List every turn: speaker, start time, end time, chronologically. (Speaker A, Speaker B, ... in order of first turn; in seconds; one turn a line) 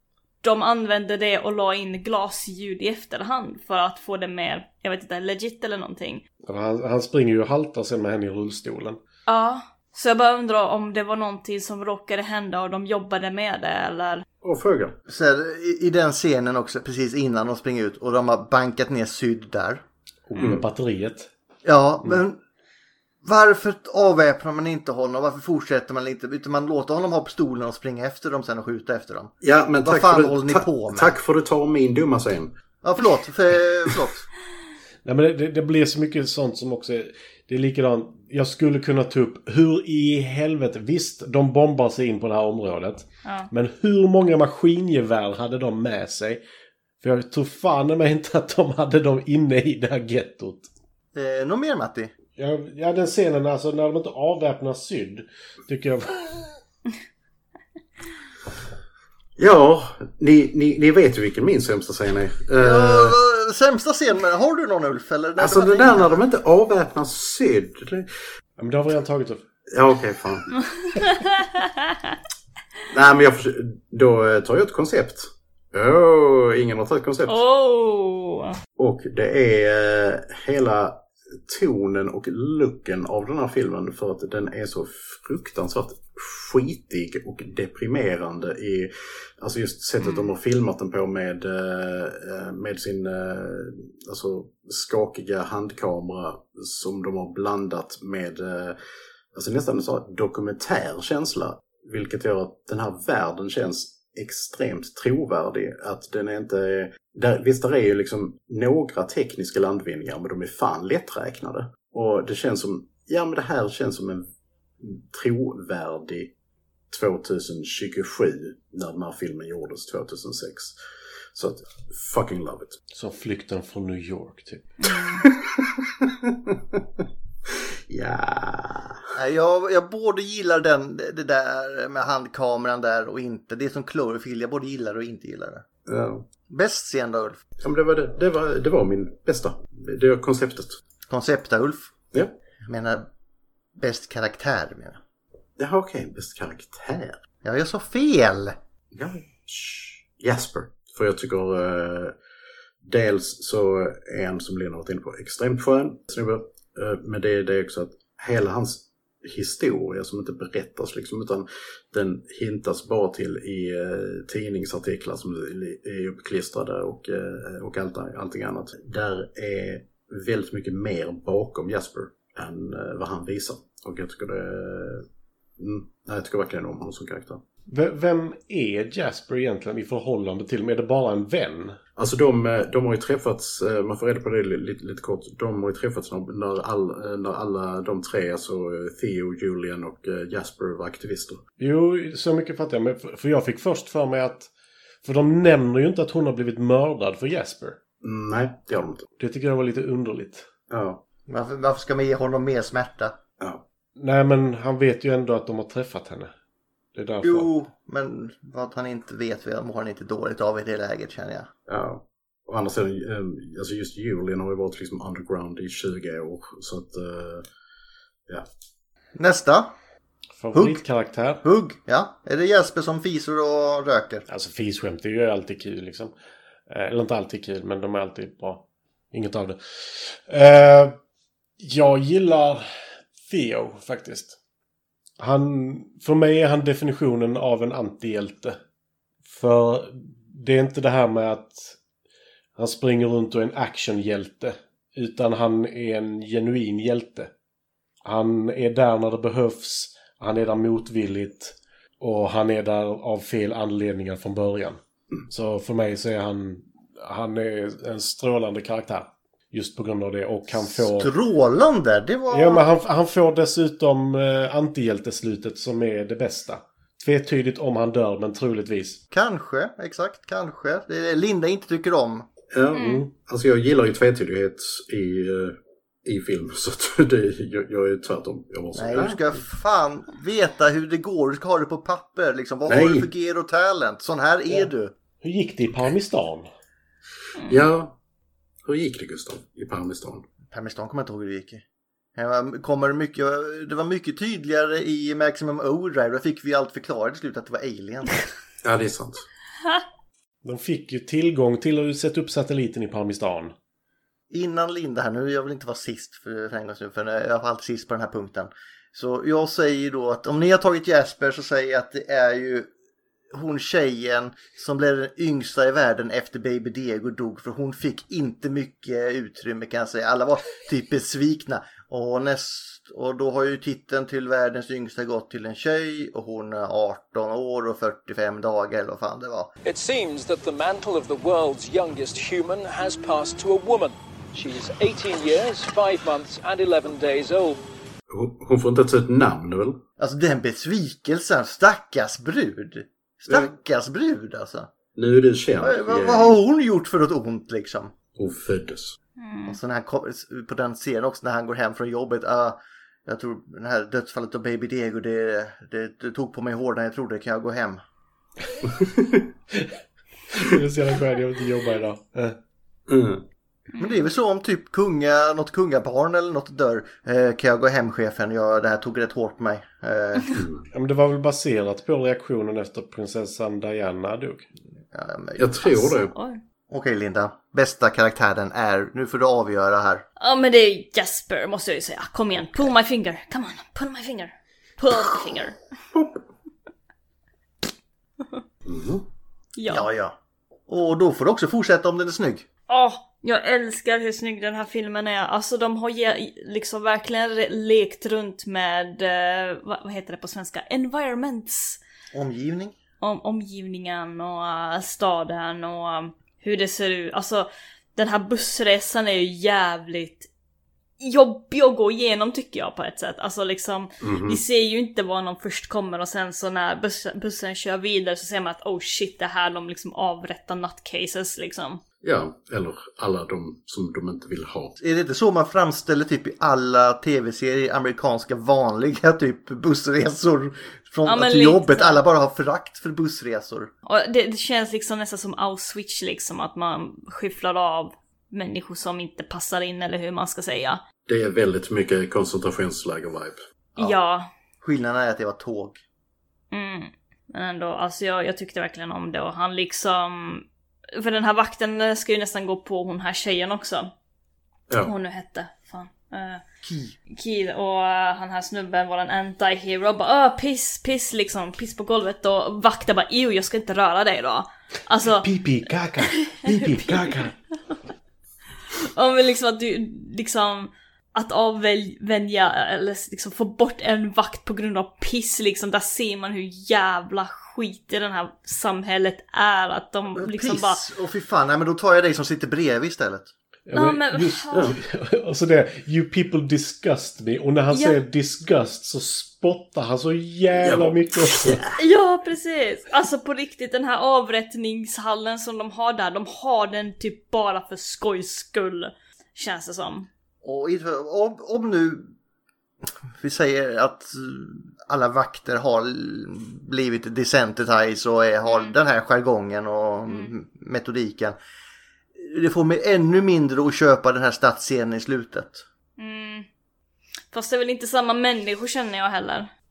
Speaker A: 0.4-6.2
Speaker B: 6.4-9.0
Speaker A: 9.3-14.2
Speaker C: 14.4-15.0
Speaker D: 15.1-19.8
Speaker B: 20.3-21.3
Speaker C: 20.4-20.6
Speaker D: 21.6-22.4
Speaker D: 23.2-29.3
Speaker C: 29.4-32.5
Speaker D: 29.8-31.1
Speaker D: 32.8-34.3
Speaker B: 35.0-46.4
Speaker B: 47.0-50.7
Speaker D: 51.1-52.1
Speaker B: 52.4-56.5
Speaker C: 59.4-63.2
Speaker D: 62.6-66.2
Speaker C: 65.4-68.1
Speaker B: 68.6-69.4
Speaker C: 69.7-70.5
Speaker A: 71.0-71.9
Speaker C: 72.9-77.4
Speaker A: 77.3-78.5
Speaker C: 78.8-98.8
Speaker C: 99.3-114.3
Speaker C: 114.8-116.3
Speaker C: 116.9-120.8
Speaker C: 121.3-122.8
Speaker B: 122.9-124.7
Speaker A: 124.8-125.2
Speaker C: 125.2-126.8
Speaker C: 127.9-129.0
Speaker D: 129.2-135.6
Speaker C: 135.9-136.2
Speaker D: 136.5-137.4
Speaker C: 137.6-140.8
Speaker D: 141.1-141.9
Speaker D: 142.7-143.1
Speaker D: 143.8-145.0
Speaker C: 145.6-147.2
Speaker D: 147.4-148.6
Speaker C: 148.9-152.2
Speaker C: 152.8-175.1
Speaker C: 175.6-177.4
Speaker B: 177.7-181.8
Speaker C: 182.0-191.4
Speaker B: 191.6-194.5
Speaker B: 195.0-197.8
Speaker C: 198.0-199.1
Speaker B: 199.2-200.5
Speaker C: 200.7-201.0
Speaker D: 201.3-203.2
Speaker B: 204.0-206.3
Speaker B: 206.9-207.5
Speaker D: 207.2-211.5
Speaker C: 211.7-217.5
Speaker D: 219.2-219.8
Speaker B: 220.4-221.4
Speaker D: 220.5-220.8
Speaker D: 221.4-224.2
Speaker B: 224.3-226.1
Speaker B: 226.7-231.0
Speaker B: 231.6-232.7
Speaker B: 233.2-234.4
Speaker B: 235.2-238.6
Speaker B: 239.2-241.8
Speaker B: 242.6-247.3
Speaker B: 248.1-261.1
Speaker D: 260.6-262.6
Speaker B: 262.3-269.0
Speaker D: 269.1-272.2
Speaker C: 272.5-279.2
Speaker A: 272.8-273.0
Speaker B: 272.8-273.1
Speaker D: 278.8-284.9
Speaker C: 282.7-283.1
Speaker B: 285.2-286.5
Speaker C: 287.5-288.0
Speaker C: 288.6-290.2
Speaker D: 290.5-291.6
Speaker D: 292.2-298.3
Speaker C: 298.6-299.3
Speaker B: 300.4-303.6
Speaker D: 304.3-312.7
Speaker D: 313.3-329.5
Speaker E: 329.6-337.6
Speaker C: 338.1-339.8
Speaker D: 340.0-344.7
Speaker C: 345.0-346.4
Speaker D: 345.6-347.9
Speaker C: 348.2-349.0
Speaker A: 349.2-349.6
Speaker D: 349.5-357.8
Speaker C: 358.8-359.2
Speaker B: 360.3-362.4
Speaker C: 362.9-363.2
Speaker D: 363.8-370.4
Speaker C: 370.4-370.6
Speaker B: 370.7-374.5
Speaker D: 374.9-375.9
Speaker C: 375.4-376.1
Speaker A: 376.1-376.4
Speaker D: 376.7-380.1
Speaker A: 380.2-385.6
Speaker C: 388.7-389.1
Speaker A: 389.6-389.9
Speaker D: 389.7-390.1
Speaker D: 390.7-392.4
Speaker A: 392.7-401.8
Speaker D: 402.1-402.8
Speaker A: 403.0-410.3
Speaker A: 411.0-421.8
Speaker C: 414.0-414.4
Speaker C: 422.0-424.8
Speaker D: 424.8-433.7
Speaker A: 431.1-432.0
Speaker A: 433.9-440.8
Speaker C: 441.1-443.9
Speaker A: 443.8-444.3
Speaker D: 444.6-445.8
Speaker A: 446.5-453.9
Speaker A: 454.8-456.4
Speaker D: 456.6-457.0
Speaker A: 457.1-465.3
Speaker B: 465.2-467.4
Speaker A: 466.3-467.2
Speaker A: 468.9-480.8
Speaker D: 480.2-483.3
Speaker B: 483.7-491.6
Speaker A: 483.7-484.8
Speaker A: 487.7-488.0
Speaker C: 490.6-491.8
Speaker A: 491.8-500.1
Speaker D: 500.4-502.1
Speaker D: 503.2-511.4
Speaker A: 508.5-508.7
Speaker D: 512.2-515.6
Speaker A: 516.0-516.5
Speaker A: 517.3-519.5